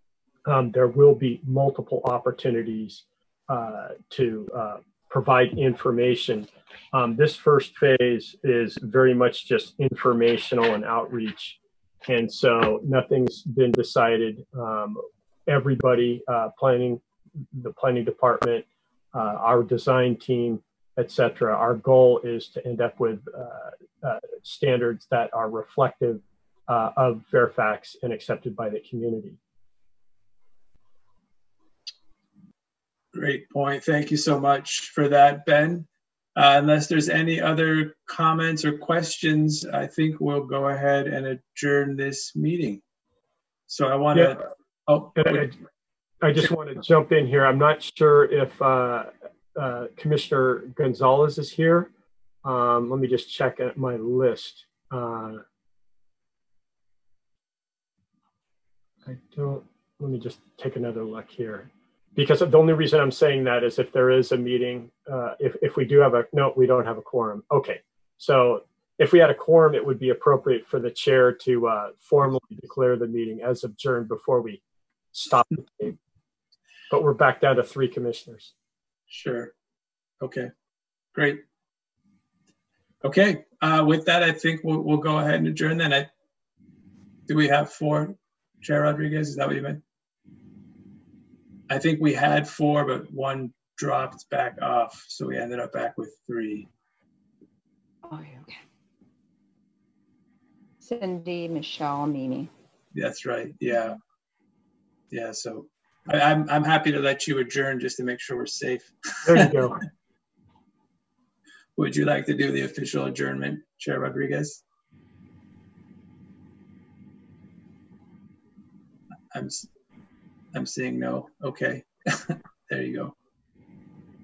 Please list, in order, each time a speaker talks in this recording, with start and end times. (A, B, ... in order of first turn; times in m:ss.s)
0:00.5-0:17.0 A
0:17.5-0:29.4 A
0:33.1-0:42.8 B
0:43.7-0:45.4 B
0:45.1-0:45.6 A
0:46.2-0:51.9 A
0:52.4-0:55.4 A
0:59.0-1:14.6 A
1:15.1-1:16.0 A
1:16.9-1:18.5 A
1:19.1-1:19.5 B
1:20.2-1:20.5 B
1:21.1-1:21.4 B
1:23.0-1:26.1 B
1:27.3-1:29.8 B
1:31.7-1:36.7 B
1:38.0-1:38.6 C
1:40.8-1:42.5 C
1:42.9-1:44.0 B
1:45.1-1:49.5 B
1:49.2-1:49.8 A
1:51.8-1:54.6 B
1:59.3-1:59.7 B
2:00.5-2:03.1 B